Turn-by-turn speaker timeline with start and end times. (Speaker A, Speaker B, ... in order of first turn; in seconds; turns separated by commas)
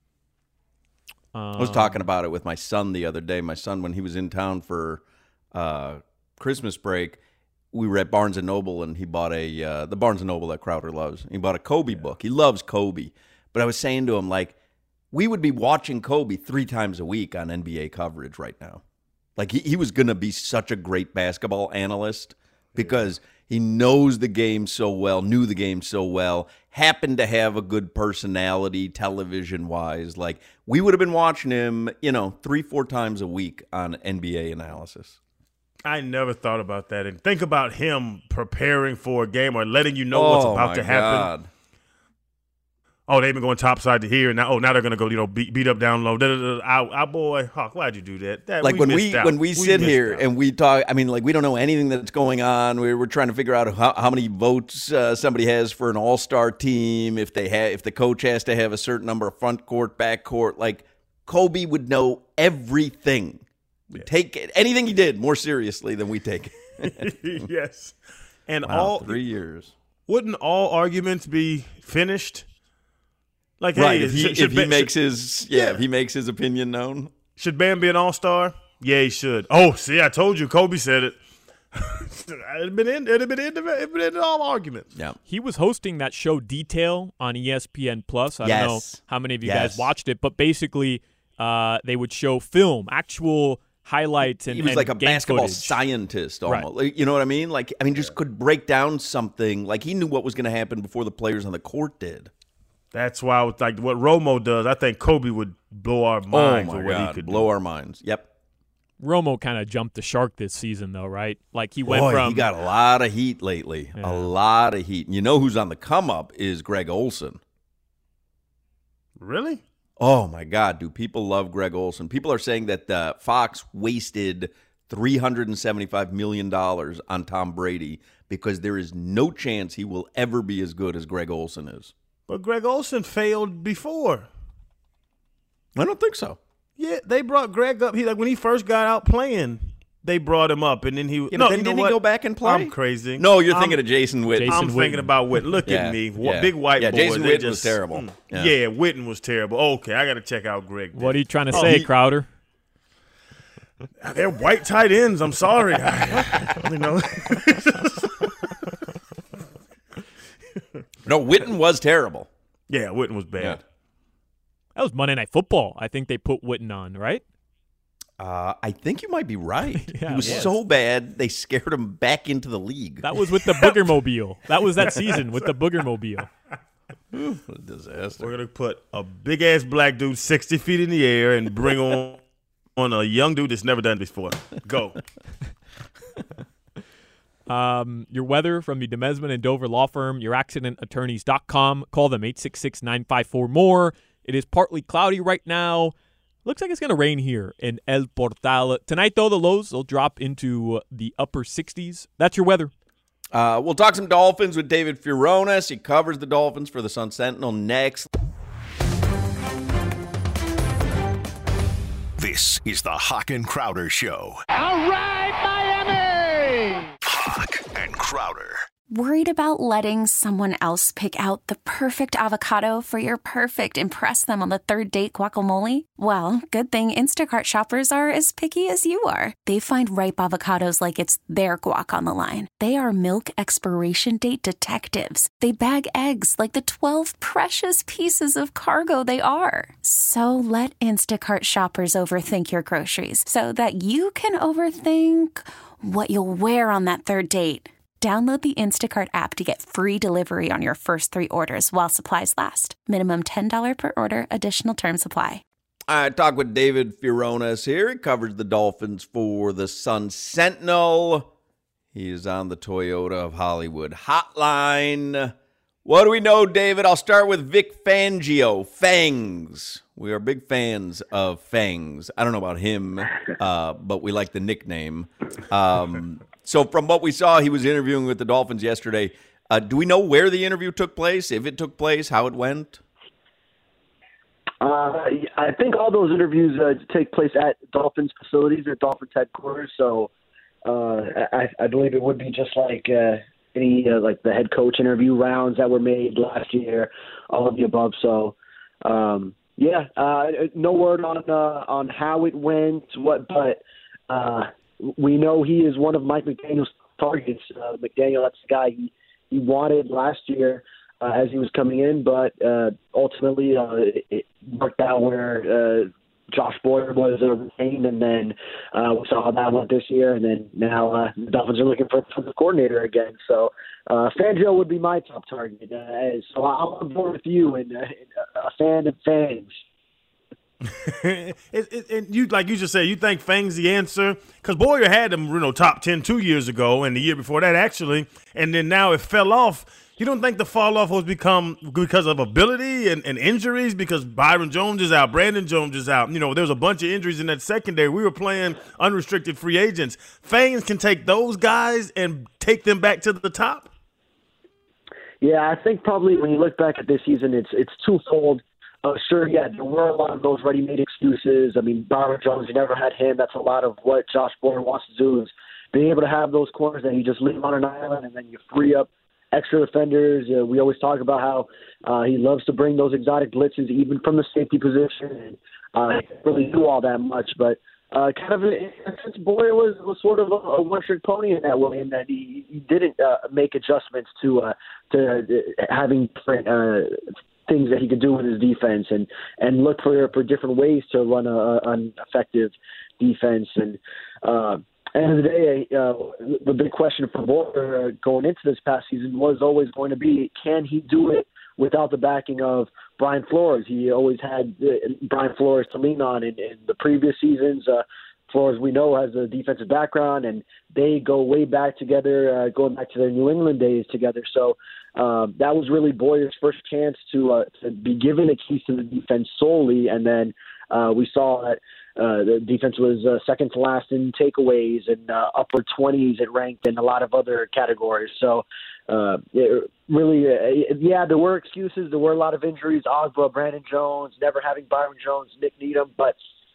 Speaker A: 1.3-2.0, Speaker B: 1.6-5.0, Speaker B: 5.5-7.2, Speaker B: 7.7-14.6, Speaker B: 15.1-18.8, Speaker B: 19.4-35.2, Speaker C: 35.9-41.3, Speaker B: 40.1-41.5, Speaker C: 43.1-50.3, Speaker B: 48.6-63.5, Speaker B: 64.0-67.2, Speaker C: 66.8-69.3, Speaker B: 68.7-69.7, Speaker C: 70.1-72.5, Speaker C: 73.6-75.0, Speaker B: 73.8-77.2, Speaker C: 75.5-75.8, Speaker C: 77.4-81.2, Speaker C: 81.7-85.0, Speaker A: 85.3-95.8, Speaker B: 88.4-89.9, Speaker B: 94.5-102.3, Speaker C: 102.9-107.5, Speaker B: 106.3-108.3, Speaker A: 109.0-112.5, Speaker B: 111.8-117.4, Speaker A: 114.0-114.3, Speaker C: 119.2-119.6, Speaker B: 120.0-131.9, Speaker C: 132.3-134.3, Speaker B: 135.8-136.4, Speaker C: 136.8-143.8, Speaker B: 141.3-144.7, Speaker A: 144.3-145.6, Speaker C: 144.4-151.8, Speaker B: 145.7-148.5, Speaker A: 150.9-152.3, Speaker B: 151.5-151.9, Speaker C: 154.0-158.5, Speaker B: 161.1-162.3, Speaker C: 162.7-163.6, Speaker A: 164.8-167.2, Speaker B: 168.2-173.1, Speaker A: 169.8-170.5, Speaker C: 170.2-170.6, Speaker A: 173.0-176.3, Speaker B: 177.1-178.3, Speaker C: 178.2-182.2, Speaker C: 182.8-185.0, Speaker A: 187.5-202.7, Speaker B: 203.3-208.1, Speaker D: 212.2-214.9, Speaker D: 217.0-218.7, Speaker E: 218.9-255.4, Speaker B: 255.9-261.3, Speaker B: 261.9-265.3, Speaker B: 265.9-282.8, Speaker F: 284.6-290.1, Speaker F: 290.6-329.5, Speaker C: 330.6-353.7, Speaker F: 355.2-436.2